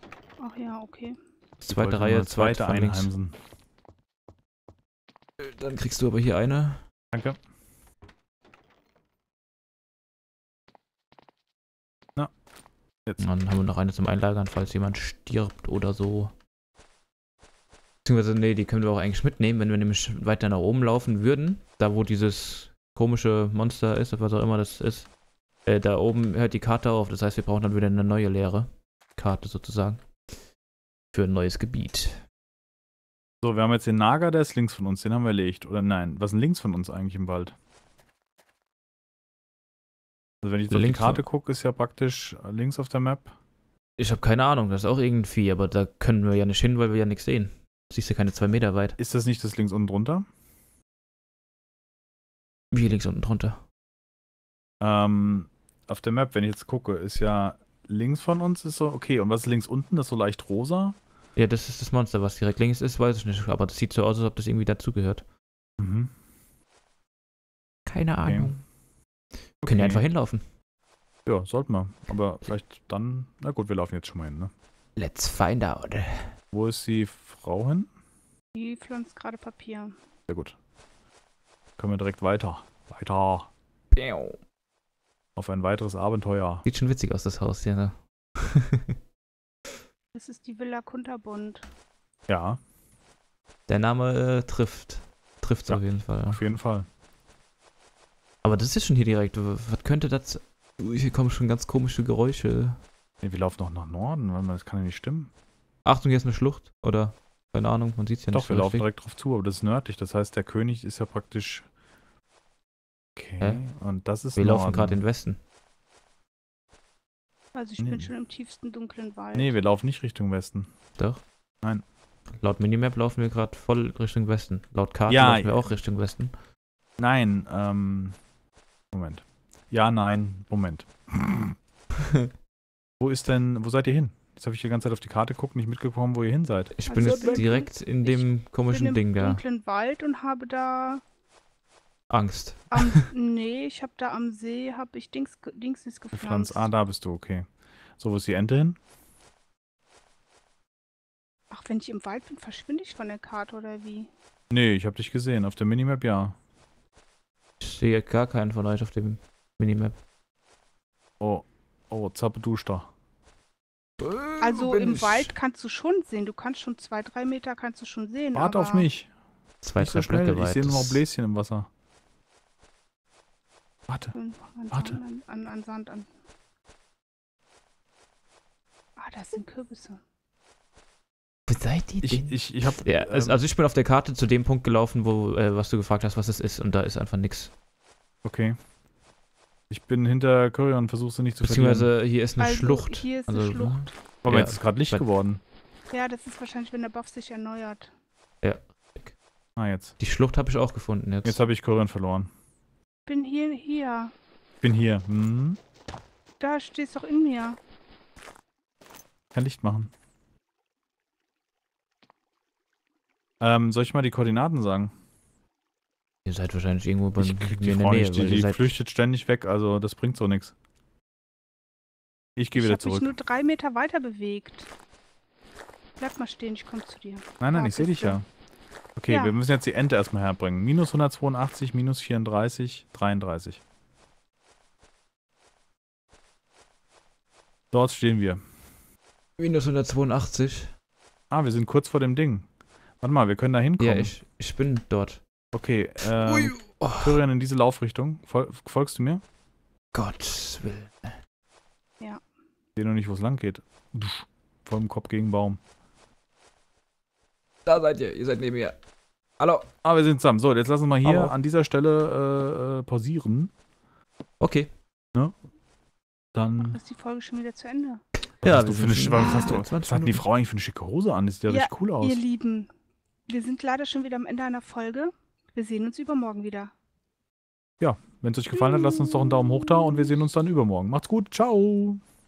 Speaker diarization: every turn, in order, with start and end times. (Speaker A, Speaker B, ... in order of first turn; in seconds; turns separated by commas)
Speaker A: 0.4-1.2, Speaker B: 1.6-3.1, Speaker C: 1.7-3.4, Speaker B: 5.4-6.8, Speaker C: 7.1-7.4, Speaker B: 13.2-16.3, Speaker B: 18.1-25.1, Speaker B: 25.7-30.0, Speaker B: 31.1-32.2, Speaker C: 33.4-37.5, Speaker C: 40.4-43.3, Speaker B: 40.7-41.2, Speaker B: 44.0-49.0, Speaker C: 49.0-50.2, Speaker B: 52.7-53.6, Speaker C: 54.8-61.0, Speaker B: 61.4-65.2, Speaker C: 65.8-66.1, Speaker B: 67.9-68.6, Speaker C: 68.2-68.5, Speaker B: 69.6-70.4, Speaker C: 69.6-70.0, Speaker C: 71.3-74.5, Speaker B: 75.0-76.3, Speaker C: 76.5-77.9, Speaker A: 78.5-80.0, Speaker C: 80.3-80.6, Speaker C: 81.8-83.5, Speaker B: 83.9-84.4, Speaker C: 85.4-86.7, Speaker B: 86.7-89.0, Speaker A: 90.1-91.7, Speaker C: 92.3-92.6, Speaker B: 93.7-96.4, Speaker C: 95.7-96.9, Speaker B: 98.4-102.8, Speaker C: 103.2-105.3, Speaker B: 105.8-108.9, Speaker C: 108.3-111.7, Speaker C: 113.2-115.0, Speaker B: 114.4-115.4, Speaker A: 117.5-119.6, Speaker C: 117.8-118.1, Speaker C: 119.3-120.7, Speaker B: 122.4-126.3, Speaker C: 125.1-125.7, Speaker C: 127.0-128.2, Speaker C: 128.9-131.6, Speaker C: 133.0-137.5, Speaker B: 136.7-139.4, Speaker A: 136.9-141.0, Speaker B: 142.1-143.1, Speaker A: 142.7-146.7, Speaker C: 146.1-147.5, Speaker C: 148.0-148.8, Speaker A: 151.5-154.1, Speaker C: 154.5-156.3, Speaker B: 157.6-160.0, Speaker C: 161.2-162.9, Speaker B: 164.0-165.3, Speaker A: 164.4-168.9, Speaker C: 168.3-169.1, Speaker B: 169.6-171.0, Speaker C: 169.8-171.7, Speaker C: 173.9-174.1, Speaker A: 174.1-176.1, Speaker C: 174.7-175.0, Speaker A: 179.0-180.0, Speaker B: 181.5-187.5, Speaker C: 182.0-183.4, Speaker C: 188.2-188.6, Speaker C: 189.7-191.9, Speaker B: 191.4-195.1, Speaker A: 192.4-193.9, Speaker C: 194.2-195.4, Speaker A: 195.9-197.9, Speaker B: 198.4-199.2, Speaker C: 199.6-199.9, Speaker B: 200.0-201.4, Speaker C: 201.2-202.3, Speaker A: 203.1-204.1, Speaker C: 204.6-205.6, Speaker A: 206.4-207.6, Speaker C: 209.3-209.9, Speaker C: 213.4-214.9, Speaker B: 216.3-218.7, Speaker C: 217.2-220.5, Speaker C: 222.4-223.1, Speaker A: 222.5-224.7, Speaker A: 226.0-228.2, Speaker C: 227.4-228.3, Speaker C: 229.0-233.6, Speaker A: 229.1-229.3, Speaker C: 237.7-238.4, Speaker B: 239.4-240.7, Speaker C: 241.3-242.5, Speaker C: 243.0-244.1, Speaker B: 243.8-245.2, Speaker C: 245.5-249.2, Speaker B: 246.2-247.2, Speaker B: 249.9-251.2, Speaker C: 252.8-255.6, Speaker B: 257.7-258.8, Speaker B: 259.4-259.7, Speaker C: 259.8-263.5, Speaker B: 261.0-261.4, Speaker B: 264.4-264.7, Speaker C: 266.3-266.8, Speaker A: 266.6-268.0, Speaker B: 268.4-270.2, Speaker C: 268.4-272.2, Speaker A: 271.5-272.7, Speaker A: 273.3-276.7, Speaker C: 277.8-282.0, Speaker A: 278.8-280.0